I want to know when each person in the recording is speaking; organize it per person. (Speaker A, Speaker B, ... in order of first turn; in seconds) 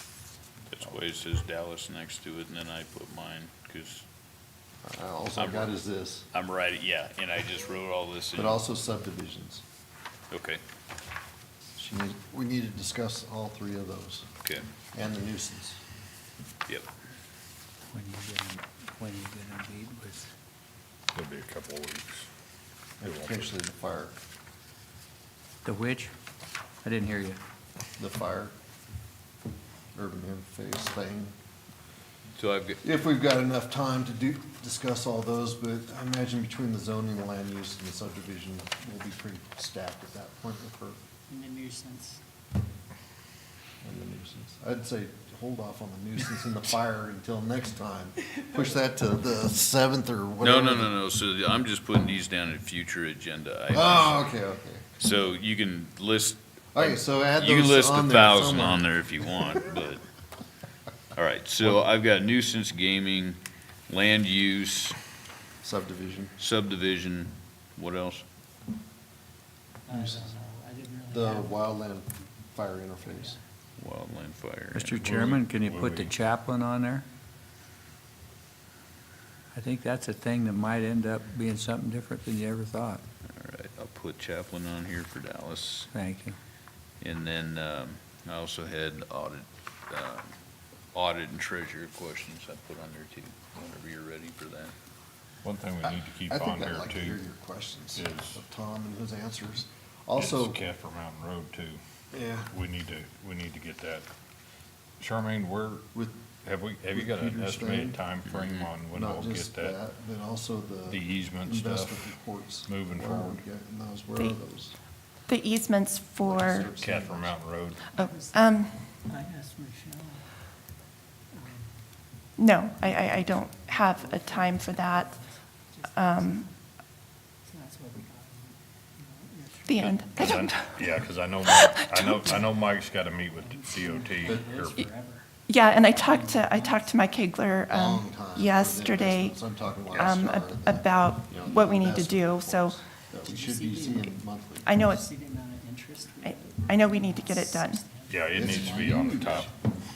Speaker A: 0.7-4.0, 5.4-5.8, 6.3-8.6, 10.3-10.6, 32.4-32.8, 50.4-54.3, 55.0-60.0, 61.1-65.0, 66.4-68.2, 73.8-75.1, 83.3-85.9, 87.0-90.2, 90.9-94.7, 108.3-108.7
Speaker B: 4.8-6.3, 8.3-9.6, 11.8-14.2, 14.9-15.8, 23.0-24.1, 28.0-28.5, 29.9-31.3, 32.8-41.0, 43.8-51.0, 53.7-54.8, 56.7-59.6, 65.6-66.3, 69.9-70.3, 71.1-73.4, 95.8-100.6, 102.1-102.5, 106.9-108.0, 108.9-114.8, 116.2-117.4, 134.2-134.6, 137.7-145.0, 148.3-149.5
Speaker C: 17.9-20.3, 25.6-26.1, 26.8-27.4, 74.7-77.0, 79.5-83.0, 85.9-86.3
Speaker D: 21.1-22.3, 23.0-23.5, 75.0-76.1, 95.4-97.2, 97.9-98.4, 100.2-101.8, 102.5-104.1, 105.0-105.8, 106.4-109.8, 110.9-113.4, 116.8-117.9, 129.8-134.8, 148.1-149.5
Speaker E: 41.3-42.2, 69.9-71.6, 73.1-73.4, 117.9-120.2, 121.3-121.8, 122.8-126.5, 127.4-130.2, 133.4-136.9, 143.2-149.5
Speaker F: 115.3-116.7, 117.9-118.9, 122.4-125.1, 125.9-126.5, 129.7-130.9, 131.4-132.3, 135.5-139.4, 139.9-142.8, 144.7-145.1, 146.2-147.9